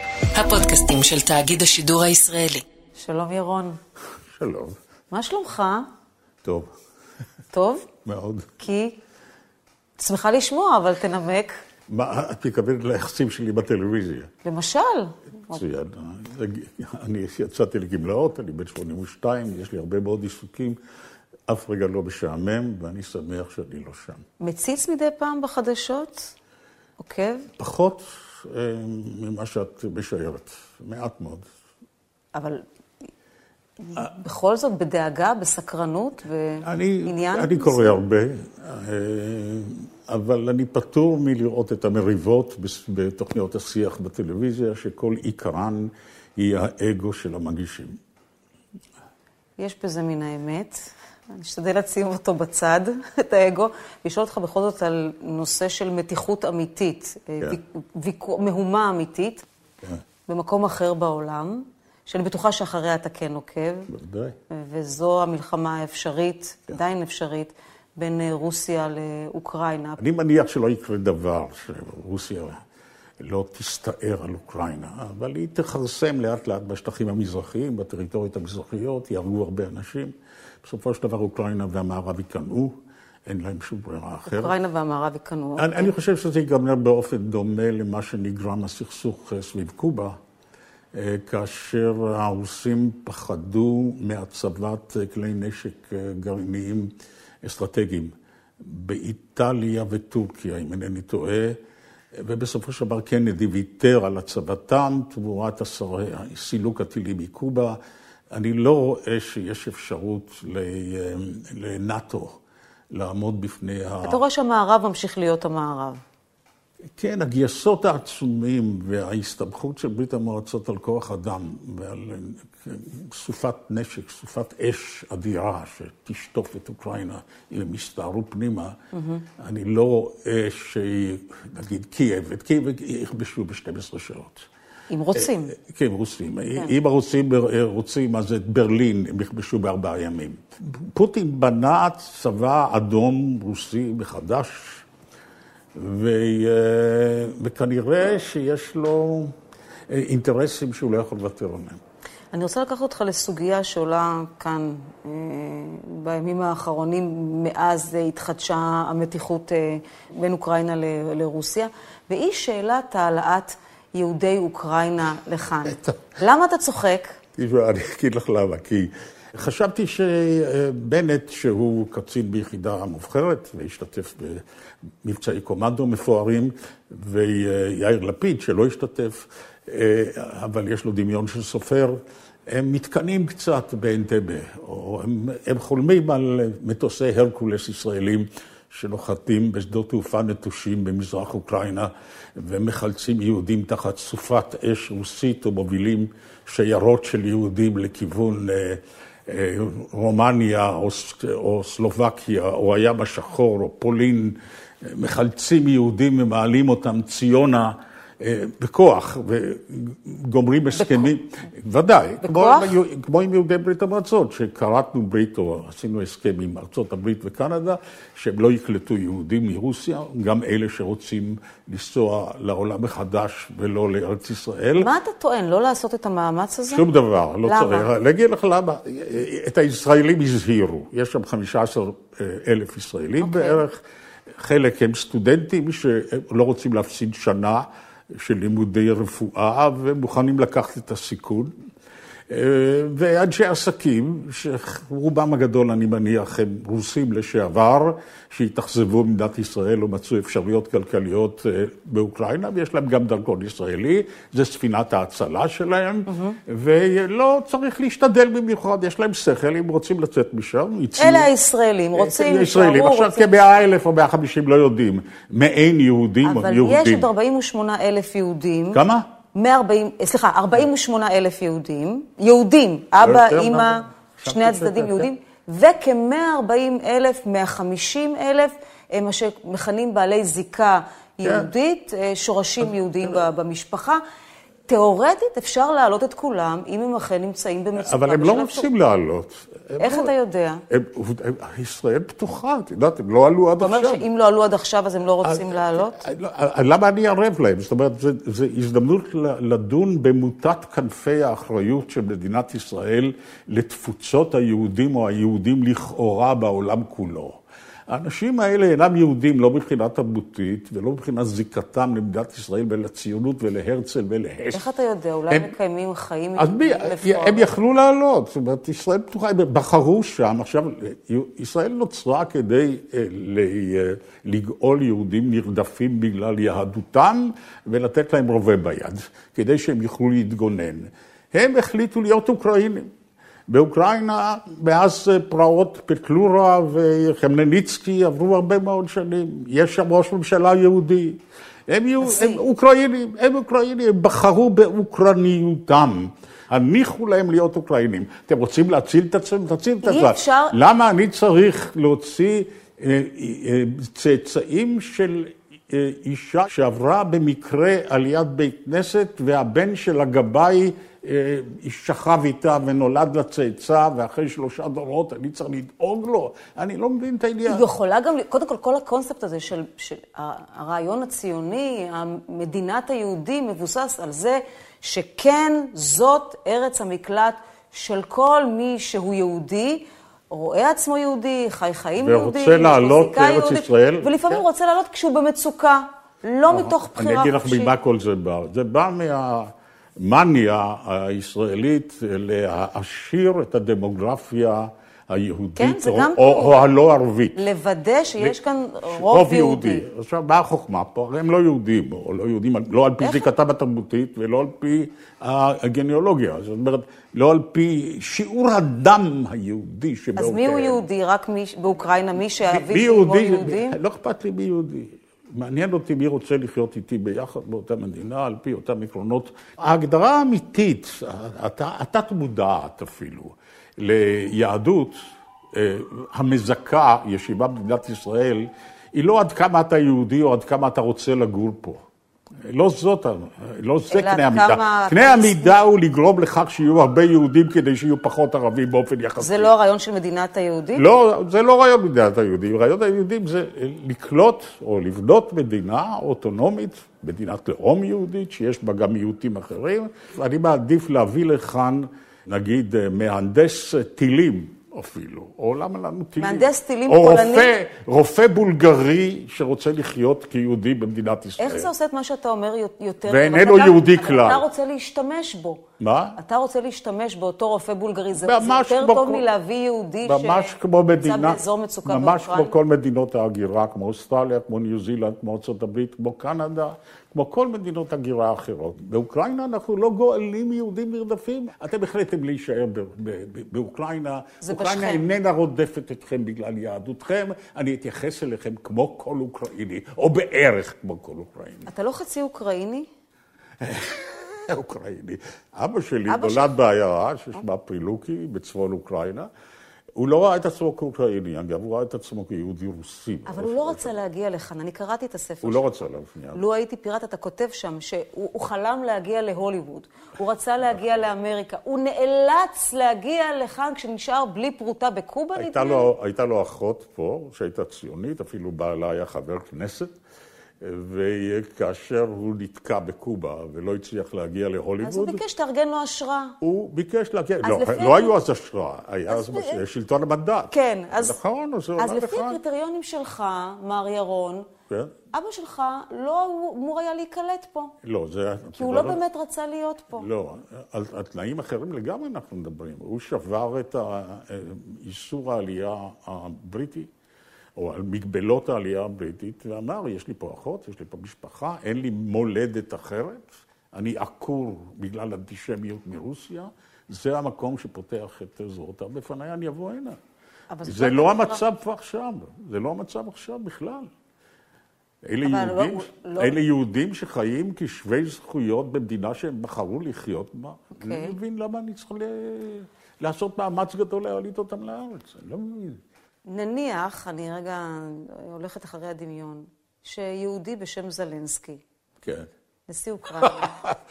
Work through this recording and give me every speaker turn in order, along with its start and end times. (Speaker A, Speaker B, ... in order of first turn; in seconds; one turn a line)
Speaker A: 0.3-2.6
Speaker B: 3.0-3.8
Speaker C: 4.3-4.8
Speaker B: 5.1-5.9
Speaker C: 6.4-6.7
Speaker B: 7.5-7.9
Speaker C: 8.1-8.6
Speaker B: 8.6-9.0
Speaker B: 10.0-11.6
Speaker C: 11.9-14.3
Speaker B: 14.4-15.7
Speaker C: 15.5-20.8
Speaker C: 21.5-24.2
Speaker B: 24.4-26.3
Speaker B: 27.0-27.5
Speaker C: 27.6-31.5
Speaker B: 32.3-32.6
Speaker B: 33.8-38.0
Speaker C: 36.6-48.0
Speaker B: 49.6-59.5
Speaker B: 60.3-63.9
Speaker C: 63.9-64.3
Speaker B: 64.5-70.0
Speaker C: 70.0-72.6
Speaker C: 73.2-84.5
Speaker B: 84.3-85.9
Speaker C: 85.6-90.2
Speaker C: 90.9-101.6
Speaker C: 102.1-107.8
Speaker C: 108.3-112.4
Speaker C: 112.9-114.2
Speaker B: 114.0-116.0
Speaker C: 117.0-128.8
Speaker B: 128.9-129.2
Speaker C: 129.4-134.5
Speaker B: 134.9-135.6
Speaker C: 135.2-144.8
Speaker C: 145.8-149.3
Speaker C: 149.9-151.8
Speaker B: 152.3-167.2
Speaker C: 165.7-166.0
Speaker C: 167.3-174.4
Speaker C: 175.0-224.9
Speaker B: 210.7-211.1
Speaker B: 212.2-212.8
Speaker B: 224.8-226.8
Speaker C: 226.7-233.8
Speaker B: 227.4-227.9
Speaker B: 233.2-233.6
Speaker C: 234.4-241.5
Speaker C: 242.3-261.3
Speaker B: 256.1-256.4
Speaker B: 261.0-263.4
Speaker C: 261.9-267.1
Speaker B: 266.2-268.8
Speaker C: 268.7-269.1
Speaker B: 269.3-284.0
Speaker C: 273.0-275.1
Speaker C: 281.2-281.5
Speaker C: 282.6-283.2
Speaker B: 284.7-288.7
Speaker C: 287.8-290.1
Speaker B: 289.8-290.6
Speaker C: 290.7-294.1
Speaker B: 293.6-296.0
Speaker C: 295.2-314.7
Speaker B: 314.5-317.6
Speaker C: 316.4-332.9
Speaker C: 333.5-367.7
Speaker B: 342.0-342.5
Speaker B: 349.8-350.5
Speaker B: 367.5-387.7
Speaker C: 382.0-384.4
Speaker C: 386.5-397.4
Speaker B: 395.6-396.6
Speaker B: 397.4-399.9
Speaker C: 398.2-410.8
Speaker B: 403.0-403.3
Speaker B: 410.2-413.8
Speaker C: 412.3-425.0
Speaker C: 425.5-431.8
Speaker C: 432.4-439.5
Speaker B: 433.9-435.6
Speaker B: 439.2-440.9
Speaker C: 440.8-461.7
Speaker B: 456.2-457.6
Speaker B: 461.4-465.6
Speaker C: 463.1-464.5
Speaker C: 465.8-466.2
Speaker B: 466.2-472.6
Speaker C: 468.1-469.3
Speaker C: 470.0-491.7
Speaker B: 484.4-485.1
Speaker B: 491.7-492.9
Speaker C: 493.6-499.3
Speaker B: 496.1-496.5
Speaker C: 500.0-504.0
Speaker B: 503.3-505.8
Speaker C: 505.4-506.4
Speaker B: 506.3-515.9
Speaker C: 515.4-520.0
Speaker C: 520.6-525.2
Speaker B: 524.8-526.3
Speaker C: 526.4-532.4
Speaker B: 527.4-528.2
Speaker B: 529.1-529.6
Speaker B: 530.5-531.2
Speaker B: 531.8-534.5
Speaker C: 534.7-534.9
Speaker B: 535.1-537.7
Speaker C: 537.8-539.0
Speaker B: 538.6-540.1
Speaker C: 539.9-546.9
Speaker C: 547.6-560.0
Speaker B: 560.5-561.4
Speaker C: 560.6-563.9
Speaker C: 565.0-575.8
Speaker B: 565.2-566.4
Speaker B: 570.8-571.2
Speaker B: 576.3-581.6
Speaker C: 582.0-582.3
Speaker B: 582.7-583.6
Speaker C: 583.2-583.8